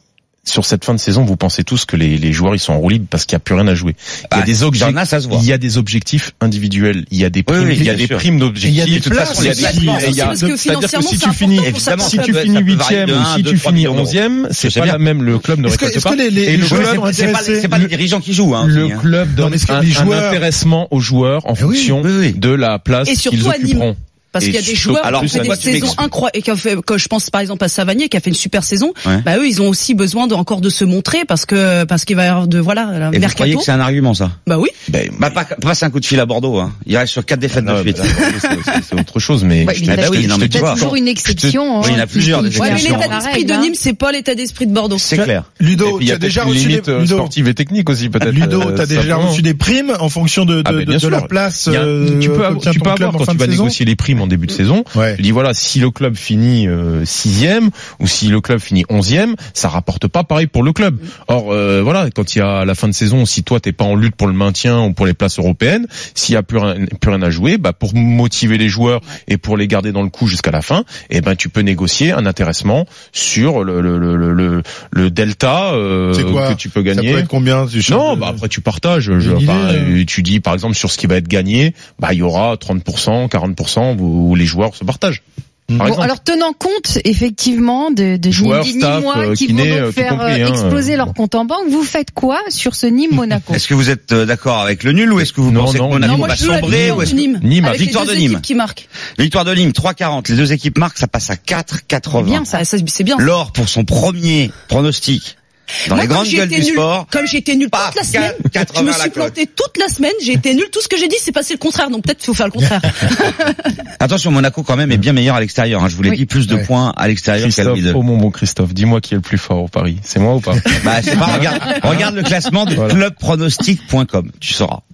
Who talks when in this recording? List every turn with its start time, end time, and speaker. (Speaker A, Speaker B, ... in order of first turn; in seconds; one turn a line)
Speaker A: 0.5-17.9
Speaker B: 4.3-5.5
Speaker B: 7.5-8.2
Speaker C: 7.7-8.1
Speaker C: 8.6-10.6
Speaker B: 8.9-10.4
Speaker D: 9.4-12.4
Speaker B: 11.6-15.0
Speaker C: 15.6-17.8
Speaker B: 16.6-19.1
Speaker A: 18.6-24.0
Speaker C: 19.3-20.5
Speaker C: 21.6-22.0
Speaker B: 22.0-22.4
Speaker D: 23.1-33.7
Speaker B: 24.4-26.0
Speaker A: 24.6-26.0
Speaker B: 33.1-34.4
Speaker D: 34.5-34.7
Speaker A: 34.9-35.4
Speaker B: 35.2-38.8
Speaker A: 37.5-42.0
Speaker E: 39.6-43.7
Speaker B: 39.8-40.9
Speaker B: 41.8-43.2
Speaker D: 42.6-45.2
Speaker B: 45.0-45.5
Speaker C: 45.2-47.4
Speaker A: 45.8-49.4
Speaker C: 48.2-53.8
Speaker A: 50.6-77.3
Speaker C: 54.9-55.2
Speaker C: 76.1-78.4
Speaker A: 77.8-85.2
Speaker C: 79.2-80.0
Speaker A: 85.7-86.1
Speaker E: 85.8-93.6
Speaker A: 88.3-91.1
Speaker B: 93.5-98.5
Speaker A: 95.2-97.7
Speaker D: 96.0-98.9
Speaker B: 99.2-102.5
Speaker E: 102.1-102.6
Speaker D: 102.5-103.3
Speaker B: 103.2-105.3
Speaker B: 105.9-107.1
Speaker D: 105.9-113.7
Speaker B: 107.7-109.4
Speaker B: 114.0-118.0
Speaker A: 117.4-122.1
Speaker B: 120.8-124.8